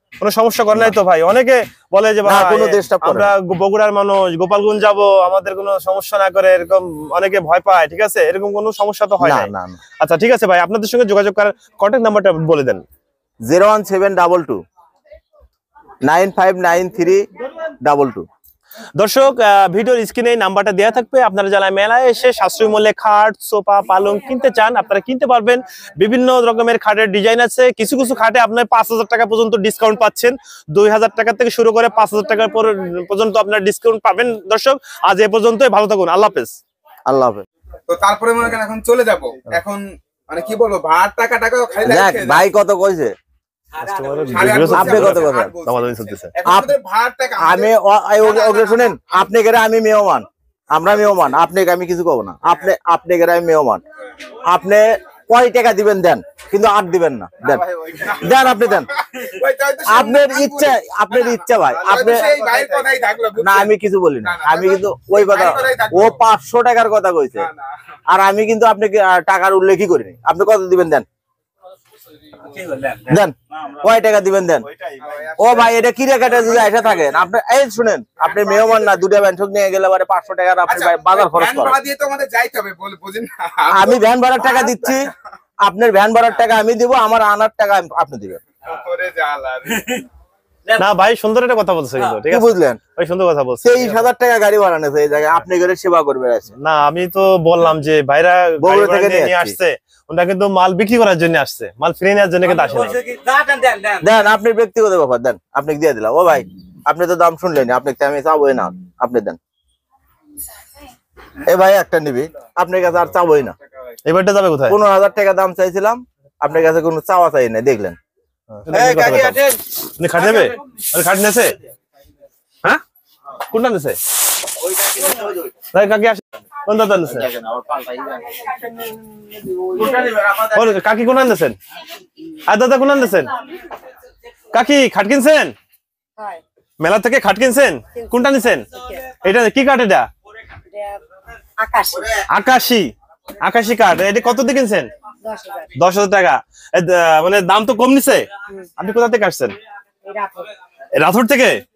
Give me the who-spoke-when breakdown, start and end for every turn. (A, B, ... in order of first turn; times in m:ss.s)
0:00.2-0:12.8 A
0:02.2-0:03.3 B
0:09.2-0:09.8 B
0:13.5-0:14.6 B
0:16.0-0:17.3 B
0:17.8-0:18.3 B
0:19.0-0:36.6 A
0:37.1-0:37.5 B
0:37.9-0:42.4 C
0:41.8-0:43.1 B
0:43.8-0:46.3 A
0:43.8-0:47.7 C
0:44.7-0:45.6 B
0:46.4-0:46.8 B
0:47.4-0:53.8 B
0:48.3-0:48.8 C
0:54.4-0:58.9 B
0:57.5-0:58.4 C
0:59.0-1:00.8 C
0:59.9-1:02.4 B
1:01.8-1:03.7 C
1:03.4-1:07.5 B
1:04.3-1:06.1 C
1:08.1-1:11.1 B
1:12.9-1:14.7 B
1:14.9-1:15.6 C
1:15.4-1:21.8 B
1:20.7-1:24.0 C
1:23.7-1:25.1 B
1:25.6-1:28.4 B
1:28.7-1:30.0 C
1:30.7-1:34.0 A
1:32.1-1:32.8 B
1:33.6-1:36.5 B
1:36.6-1:43.0 A
1:38.6-1:39.6 B
1:43.9-1:49.4 B
1:51.4-1:53.6 B
1:54.0-1:54.8 A
1:54.7-1:58.0 B
1:58.5-2:01.6 A
1:59.1-1:59.4 B
2:03.4-2:04.0 A
2:04.8-2:05.4 B
2:05.7-2:07.3 A
2:07.2-2:08.5 B
2:09.7-2:10.5 B
2:10.4-2:11.6 A
2:12.4-2:13.4 A
2:14.5-2:15.5 A
2:16.8-2:20.1 A
2:18.7-2:19.0 D
2:20.7-2:21.0 D
2:21.6-2:22.2 D
2:22.1-2:24.9 A
2:25.2-2:25.7 D
2:25.8-2:29.5 A
2:30.0-2:30.5 D
2:31.0-2:31.6 A